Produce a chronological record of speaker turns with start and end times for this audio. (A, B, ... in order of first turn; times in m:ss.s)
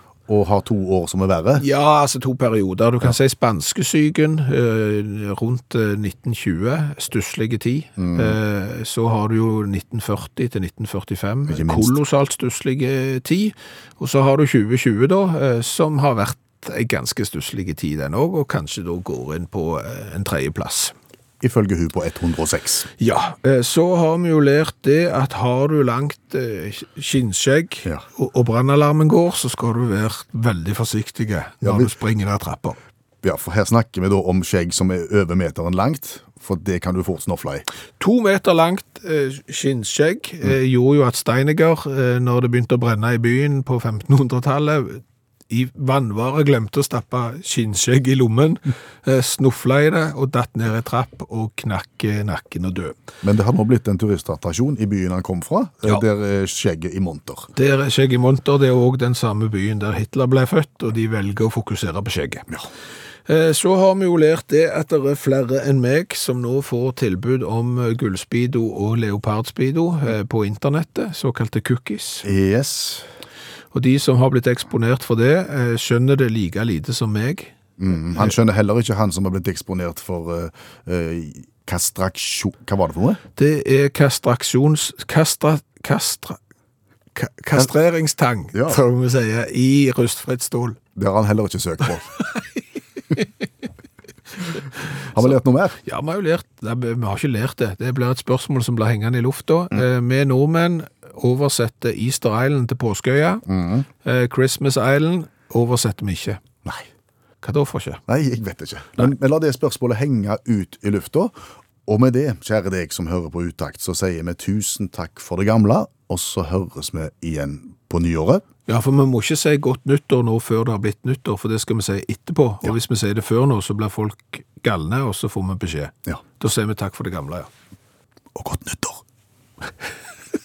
0:00.3-0:01.7 A
0:01.6-0:20.9 B
0:08.0-0:08.4 A
0:11.5-0:12.0 A
0:21.4-0:22.9 A
0:23.0-0:32.8 B
0:31.6-0:31.9 A
0:33.2-0:37.7 A
0:38.0-0:53.0 B
0:53.2-0:57.5 A
0:57.6-1:02.5 B
1:03.3-1:12.3 B
1:12.2-1:13.1 A
1:13.7-1:17.5 B
1:17.8-1:23.2 A
1:23.4-1:26.4 B
1:27.2-1:30.8 B
1:28.5-1:28.8 A
1:31.0-1:32.1 A
1:32.3-1:32.6 B
1:35.1-1:35.8 A
1:35.1-1:43.4 B
1:43.5-1:43.9 A
1:44.0-1:46.4 B
1:47.4-1:48.0 B
1:48.1-1:51.3 A
1:51.9-1:58.4 A
1:58.7-2:07.5 B
2:08.4-2:09.0 A